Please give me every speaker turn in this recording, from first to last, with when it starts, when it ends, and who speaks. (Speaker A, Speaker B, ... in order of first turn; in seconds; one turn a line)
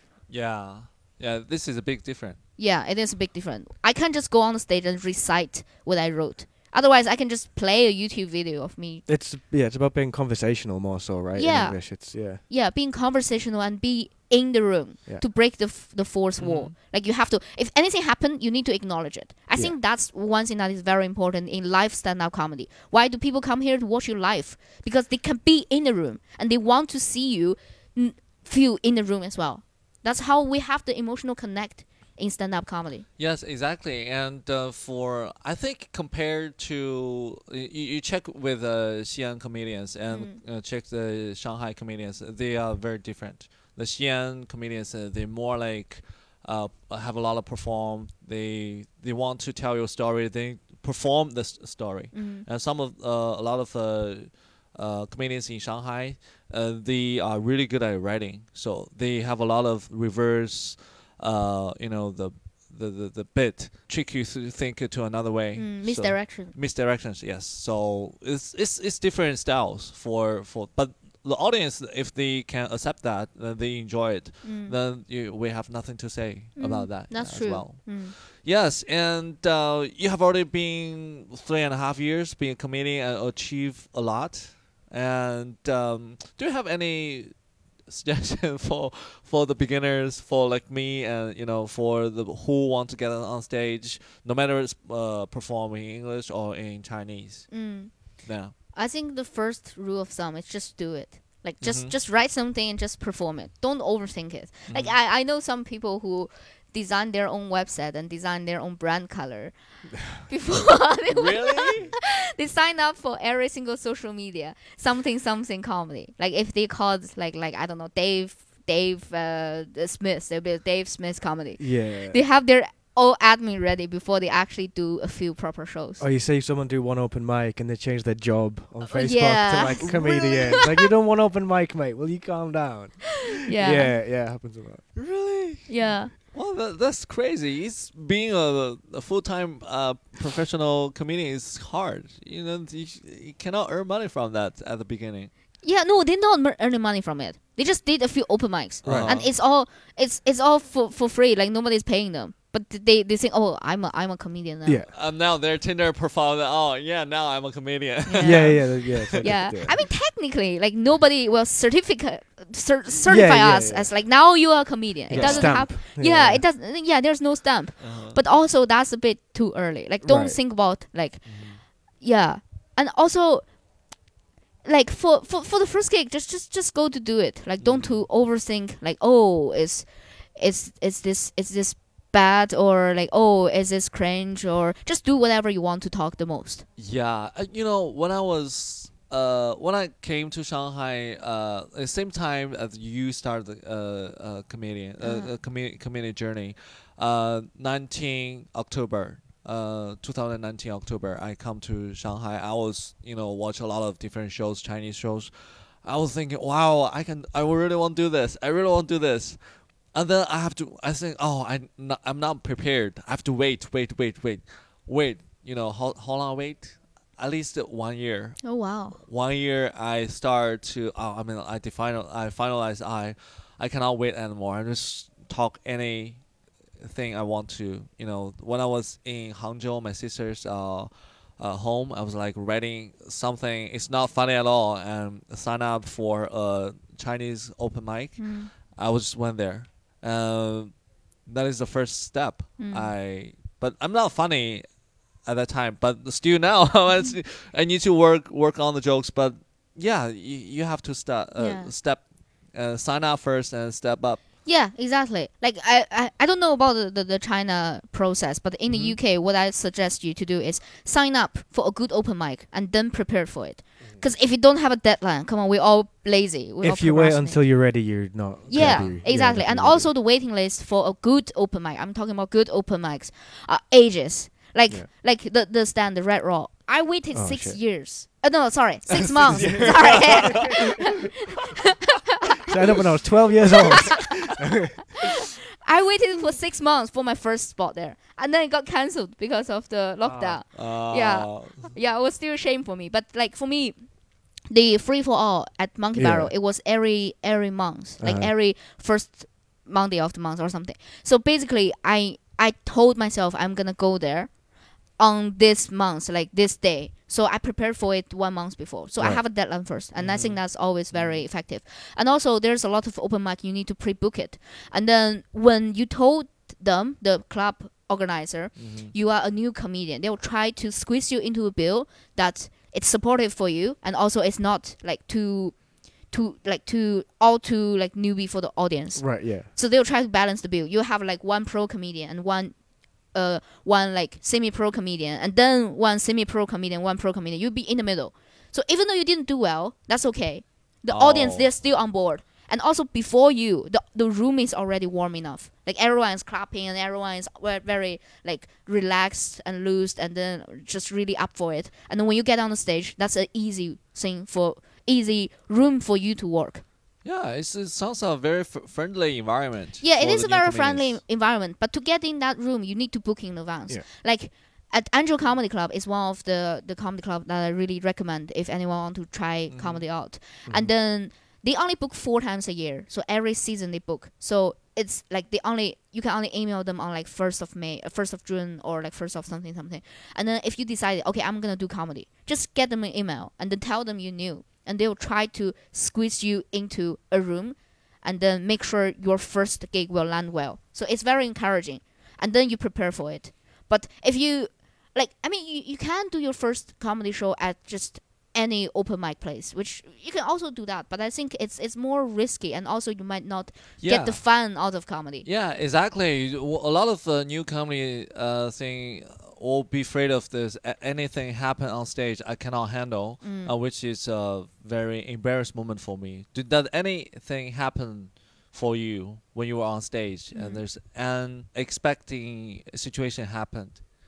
Speaker A: 0.3-2.4
Speaker B: 2.6-9.0
Speaker C: 9.1-12.4
Speaker B: 11.3-33.0
Speaker A: 16.4-16.7
Speaker A: 33.2-98.5
Speaker B: 40.1-40.4
Speaker B: 52.1-52.5
Speaker B: 65.5-66.5
Speaker B: 74.4-74.8
Speaker B: 76.5-78.1
Speaker B: 97.5-126.0
Speaker A: 101.6-101.9
Speaker A: 104.7-105.0
Speaker A: 111.1-112.0
Speaker C: 121.6-122.2
Speaker C: 126.0-134.9
Speaker B: 128.9-130.7
Speaker B: 133.4-133.9
Speaker A: 134.9-145.3
Speaker B: 135.7-136.1
Speaker B: 145.6-154.8
Speaker A: 148.8-149.3
Speaker C: 148.8-149.2
Speaker C: 154.6-154.9
Speaker A: 154.9-159.3
Speaker B: 158.1-173.6
Speaker C: 158.2-159.8
Speaker C: 163.1-163.9
Speaker C: 165.1-166.4
Speaker A: 165.1-165.6
Speaker A: 167.8-168.2
Speaker C: 170.0-170.4
Speaker A: 171.2-171.6
Speaker B: 174.6-186.6
Speaker A: 177.6-178.1
Speaker A: 186.8-254.2
Speaker B: 195.0-195.3
Speaker B: 218.4-219.0
Speaker B: 238.2-238.5
Speaker B: 242.6-242.9
Speaker B: 251.4-251.7
Speaker B: 254.4-281.1
Speaker A: 258.7-259.0
Speaker C: 266.6-269.9
Speaker A: 268.5-268.9
Speaker C: 277.1-277.6
Speaker A: 278.9-280.5
Speaker C: 279.3-280.5
Speaker B: 281.8-282.6
Speaker C: 282.5-284.8
Speaker B: 285.6-356.6
Speaker C: 290.0-290.4
Speaker A: 290.5-291.8
Speaker C: 295.9-296.3
Speaker C: 298.0-298.3
Speaker A: 309.9-311.2
Speaker A: 318.6-318.9
Speaker C: 329.0-329.5
Speaker A: 340.9-341.6
Speaker A: 357.0-361.0
Speaker B: 359.8-405.3
Speaker A: 369.5-369.8
Speaker C: 370.4-370.7
Speaker A: 403.8-404.4
Speaker A: 405.2-423.8
Speaker B: 413.2-413.5
Speaker B: 420.3-420.6